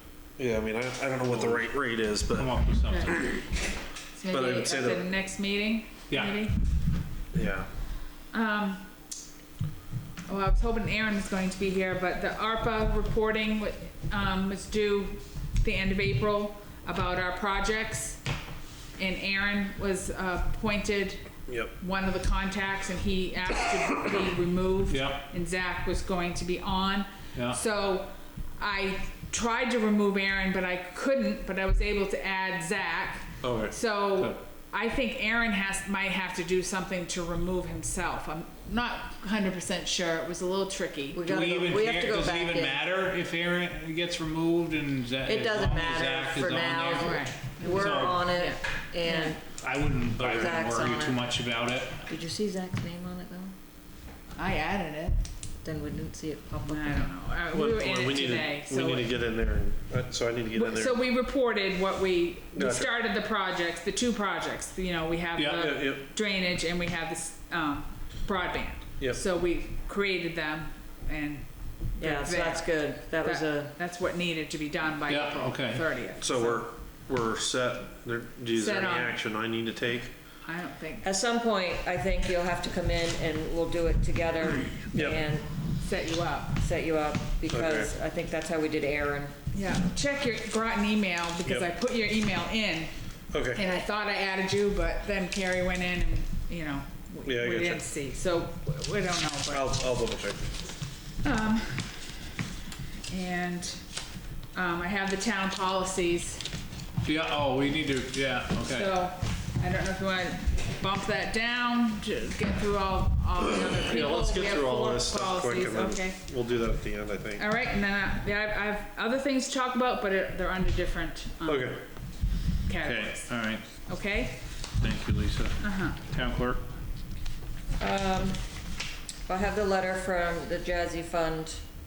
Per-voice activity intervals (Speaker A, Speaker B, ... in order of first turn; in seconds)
Speaker A: 0.4-2.5, 4.3-5.1, 7.3-7.7, 21.5-21.7, 33.4-33.7, 50.2-50.5, 57.5-61.0, 62.5-62.9, 65.5-66.0, 76.2-80.1, 84.9-85.2, 87.5-87.9, 93.3-93.6, 97.2-97.8, 99.5-100.5, 113.7-117.5, 121.4-121.8
Speaker B: 1.3-1.7, 2.3-3.2, 6.1-6.5, 24.9-25.3, 27.3-27.6, 41.2-48.3, 49.6-52.0, 65.3-65.6, 75.1-75.8, 107.0-108.9, 122.8-123.7, 124.8-126.6
Speaker C: 2.9-3.2, 4.1-6.6, 8.3-8.9, 10.3-18.2, 19.0-21.2, 21.8-41.2, 47.0-49.4, 54.4-55.2, 56.6-59.1, 60.5-76.6, 78.5-79.2, 80.4-81.1, 85.8-86.6, 89.5-92.9, 93.5-99.7, 101.2-101.9, 103.1-103.8, 104.5-106.4, 108.7-116.2, 117.4-121.8, 122.7-123.3, 123.8-124.4, 125.6-126.0
Speaker D: 41.1-42.8, 45.2-49.4, 50.2-51.3, 52.1-53.5, 55.6-57.0, 72.0-73.7, 81.0-85.5, 86.6-89.3, 127.8-128.4, 129.2-131.6